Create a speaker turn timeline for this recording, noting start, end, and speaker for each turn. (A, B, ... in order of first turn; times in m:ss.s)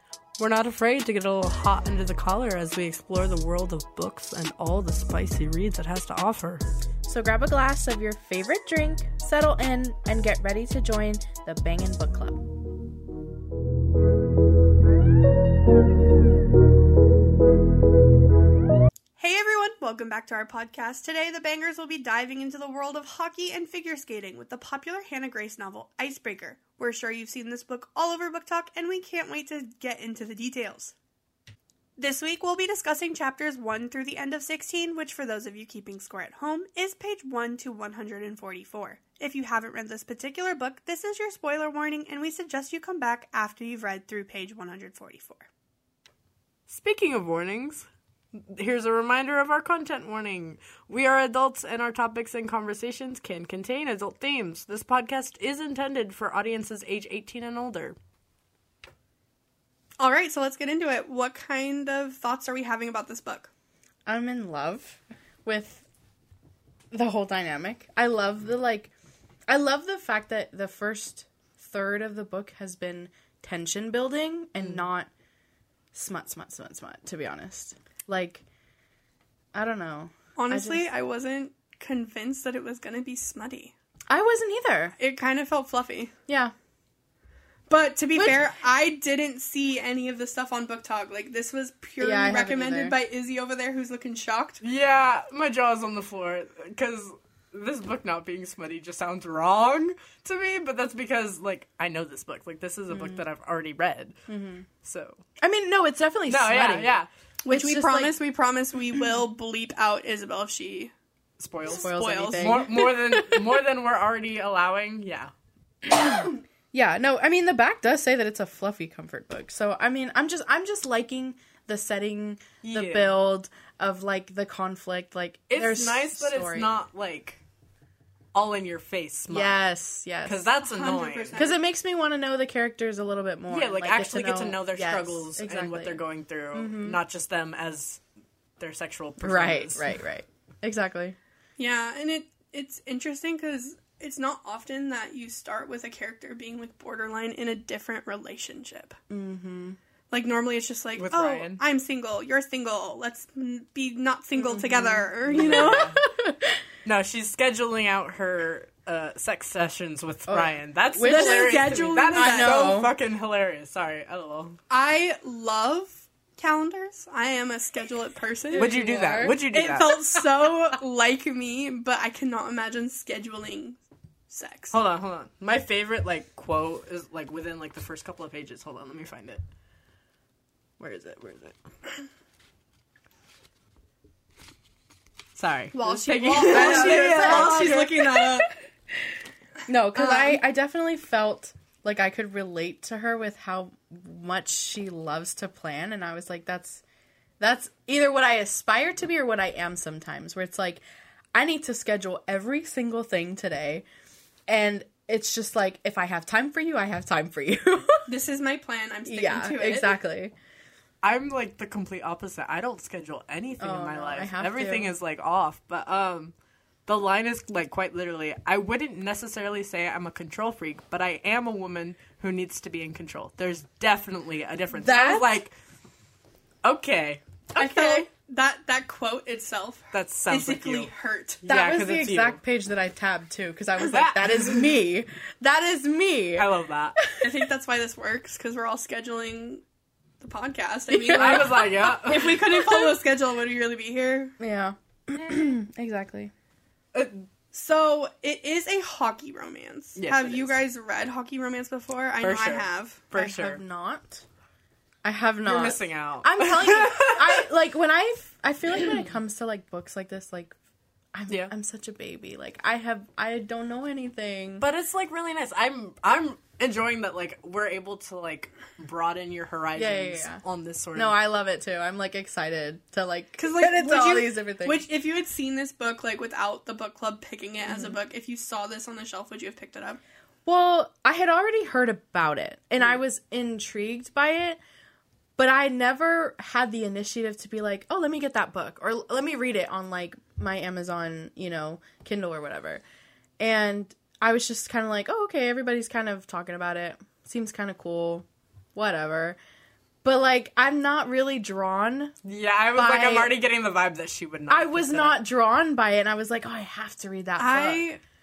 0:00.4-0:06.6 A
0:07.0-0:12.4 B
0:19.2-0:30.9 C
0:32.0-0:45.5 C
0:46.7-0:58.0 A
1:00.0-1:03.5 C
1:04.0-1:05.8 B
1:06.9-1:08.9 B
1:09.5-1:15.1 B
1:15.9-1:18.4 B
1:19.5-1:20.9 B
1:20.4-1:23.7 C
1:24.1-1:24.9 B
1:25.0-1:26.1 C
1:26.3-1:26.5 B
1:27.7-1:34.6 C
1:32.0-1:32.9 B
1:34.6-1:44.2 A
1:42.9-1:43.2 B
1:44.3-1:44.6 B
1:44.8-1:45.2 A
1:45.4-1:48.2 B
1:46.3-1:47.1 A
1:47.4-1:50.9 C
1:51.4-1:55.3 A
1:51.6-1:52.7 C
1:51.7-1:53.4 B
1:55.8-2:06.7 B
2:02.6-2:03.1 A
2:05.5-2:07.4 A
2:08.3-2:09.6 A
2:09.3-2:10.4 B
2:10.2-2:11.5 A
2:10.6-2:11.6 C
2:11.3-2:16.0 B
2:13.5-2:18.0 A
2:16.5-2:17.0 B
2:18.6-2:19.9 A
2:19.2-2:21.2 B
2:21.6-2:29.0 C
2:29.1-2:29.8 B
2:30.1-2:35.9 C
2:31.0-2:31.6 A
2:34.4-2:36.6 B
2:35.3-2:36.0 A
2:36.8-2:44.6 A
2:40.3-2:42.9 B
2:41.0-2:42.8 C
2:44.7-2:48.8 C
2:48.5-2:49.4 B
2:48.6-2:50.2 A
2:49.4-2:54.8 C
2:54.7-2:59.4 A
3:00.8-3:01.5 A
3:05.4-3:08.1 A
3:05.7-3:08.5 C
3:06.5-3:08.3 B
3:09.7-3:16.8 B
3:10.0-3:10.4 C
3:17.4-3:20.8 B
3:21.3-3:23.8 B
3:24.5-3:28.1 B
3:28.1-3:30.0 C
3:29.1-3:30.3 B
3:31.0-3:36.3 A
3:33.6-3:34.9 B
3:36.9-3:45.5 A
3:44.7-3:45.3 B
3:46.6-3:48.1 A
3:47.6-3:51.4 C
3:49.9-3:50.9 A
3:51.4-3:52.4 A
3:51.4-3:57.4 B
3:53.8-3:54.7 A
3:56.3-3:57.0 A
3:57.2-3:59.6 C
4:00.2-4:04.3 C
4:00.9-4:03.0 B
4:01.1-4:02.4 A
4:04.4-4:06.3 B
4:06.9-4:07.2 A
4:07.5-4:13.0 C
4:10.0-4:10.6 A
4:12.2-4:13.6 A
4:13.1-4:14.2 B
4:15.0-4:20.5 B
4:15.4-4:17.4 A
4:21.1-4:24.6 B
4:24.6-4:31.2 A
4:29.8-4:30.4 B
4:30.9-4:34.8 B
4:33.4-4:34.3 A
4:33.4-4:40.0 C
4:37.7-4:38.0 B
4:40.4-4:44.6 B
4:45.4-4:52.8 B
4:53.4-4:59.4 B
5:00.0-5:02.1 B
5:02.2-5:05.2 A
5:02.7-5:03.3 B
5:04.5-5:07.8 B
5:07.4-5:08.0 C